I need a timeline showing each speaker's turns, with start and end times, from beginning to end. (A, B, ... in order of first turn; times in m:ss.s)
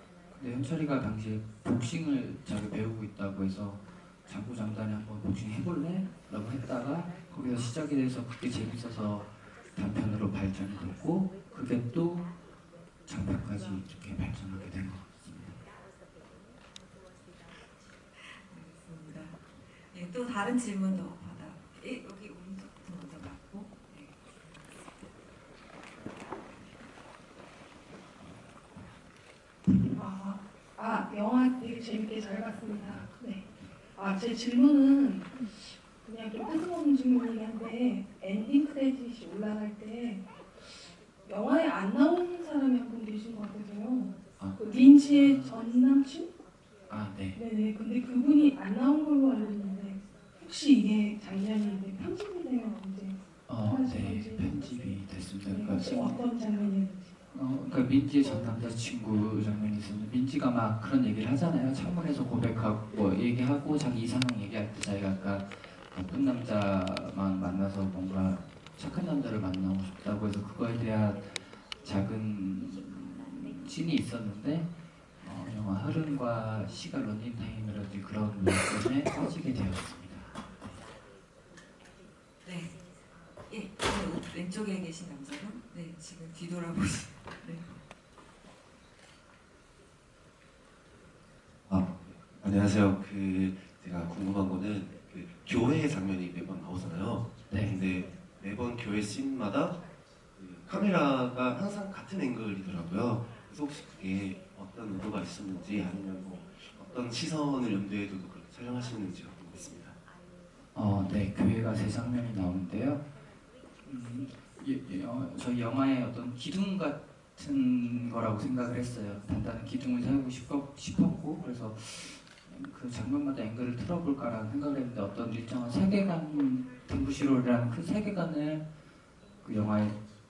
0:00.3-0:12.3 A
0:13.1-0:15.6 A
0:18.1-0:24.9 B
0:29.9-0:46.3 C
0:32.8-0:33.1 A
0:44.4-0:45.6 A
0:46.9-0:47.4 A
0:47.3-0:54.8 C
0:53.5-0:56.2 A
0:55.4-0:57.1 C
0:57.3-1:20.8 A
1:22.4-1:22.8 B
1:23.5-1:27.8 B
1:31.7-1:39.8 D
1:37.5-1:37.7 A
1:40.3-1:50.0 D
1:50.7-1:53.0 A
1:53.8-2:08.6 A
2:09.4-2:10.0 A